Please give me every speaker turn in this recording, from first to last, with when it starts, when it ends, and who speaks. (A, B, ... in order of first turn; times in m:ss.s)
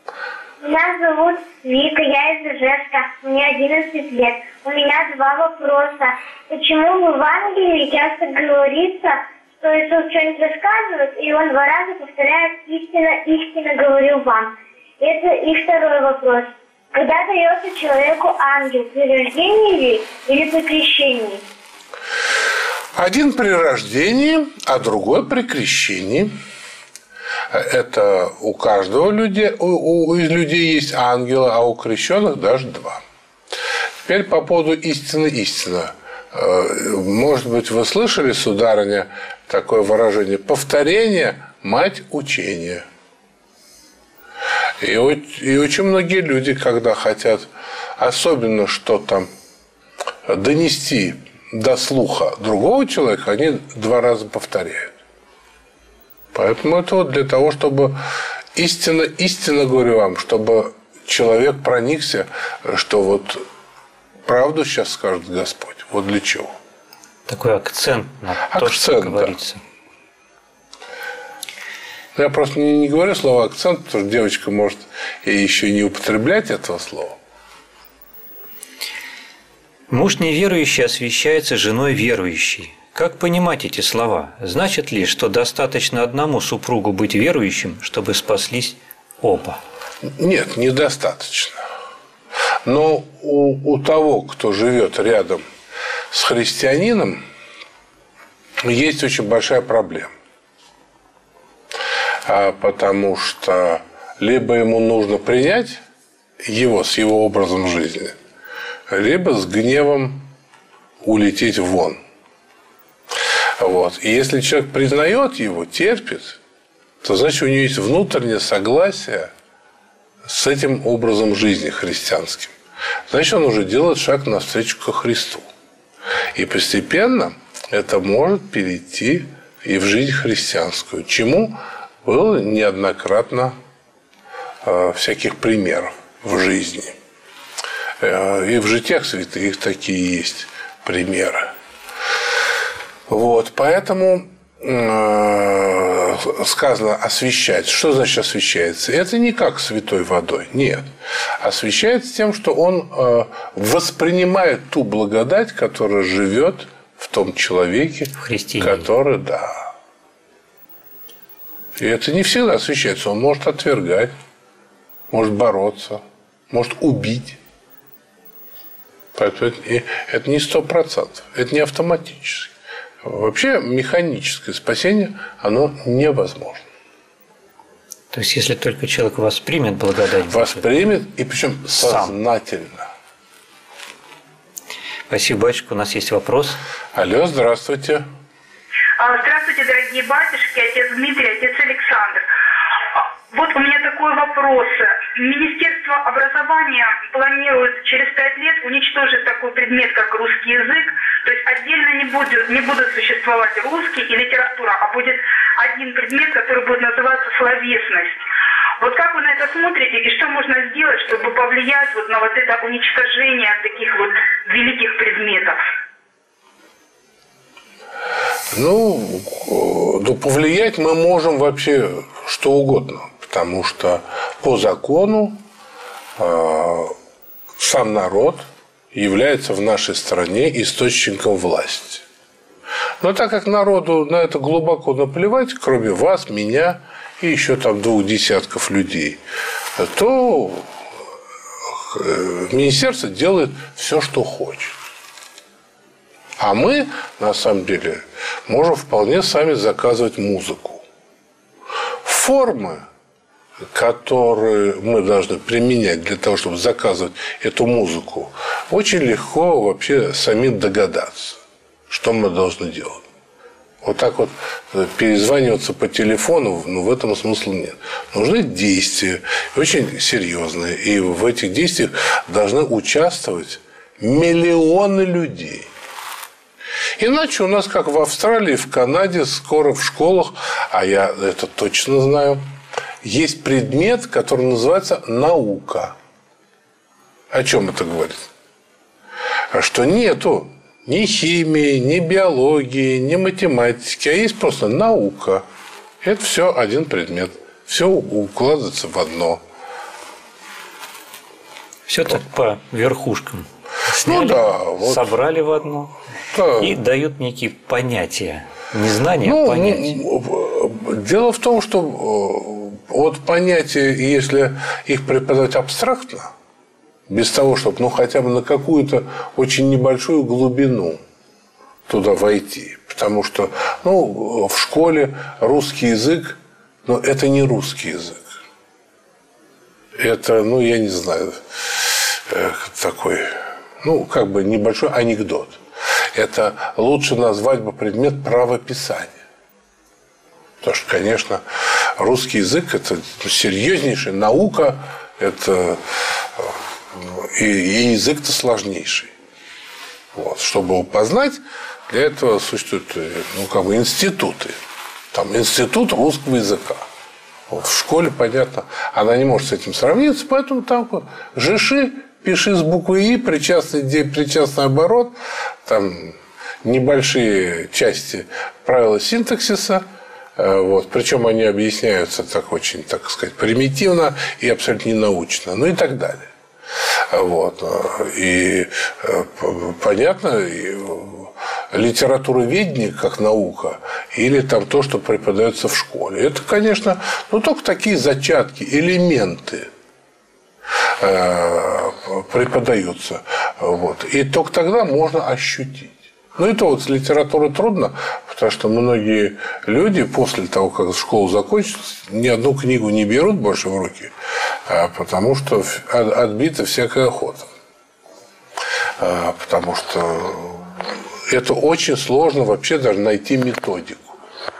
0:00.6-0:21.4 A
0:22.9-0:26.3 B
0:27.5-0:33.0 B
0:34.0-0:42.8 B
0:44.8-0:49.3 B
0:50.2-0:55.0 B
0:56.3-0:58.0 B
0:58.5-1:03.4 B
1:04.2-1:06.6 B
1:07.3-1:09.6 C
1:08.4-1:09.3 B
1:12.1-1:17.2 B
1:19.9-1:29.6 C
1:30.0-1:31.6 B
1:32.6-1:35.4 B
1:36.1-1:37.2 B
1:38.6-1:40.1 B
1:42.2-1:45.8 B
1:46.4-1:48.2 B
1:48.9-1:50.2 B
1:51.0-1:52.0 B
1:53.6-1:56.4 B
1:57.0-1:59.3 B
2:00.2-2:02.5 B
2:03.1-2:05.5 B
2:06.3-2:13.6 B
2:14.6-2:17.0 B
2:18.0-2:21.5 B
2:23.1-2:30.9 B
2:31.4-2:39.7 B
2:38.2-2:38.9 C
2:41.8-2:44.1 B
2:45.1-2:47.4 B
2:49.1-2:56.6 B
2:58.1-3:00.7 C
3:00.3-3:02.9 B
3:01.8-3:02.2 C
3:05.1-3:06.6 C
3:06.9-3:08.0 B
3:09.0-3:12.2 D
3:13.0-3:28.2 D
3:28.8-3:35.6 D
3:38.5-3:45.4 B
3:46.2-3:46.9 B
3:47.6-3:52.0 B
3:53.0-3:59.2 B
3:59.8-4:00.7 B
4:01.7-4:04.8 B
4:06.4-4:10.8 B
4:12.0-4:12.8 B
4:13.7-4:23.0 B
4:23.8-4:35.7 B
4:37.0-4:42.4 B
4:43.0-4:46.0 B
4:47.3-4:48.3 B
4:49.5-4:55.4 B
4:56.0-4:59.4 B
5:01.9-5:06.0 C
5:04.0-5:05.1 B
5:06.3-5:06.8 B
5:06.6-5:10.0 C
5:09.2-5:16.3 B
5:17.1-5:21.0 B
5:21.9-5:28.3 B
5:30.0-5:35.6 B
5:36.1-5:39.2 B
5:40.6-5:49.1 B
5:50.1-5:54.6 B
5:55.1-5:56.9 B
5:57.5-6:16.3 B
6:17.1-6:29.7 B
6:31.0-6:44.1 B
6:44.7-6:47.5 B
6:49.0-6:54.2 B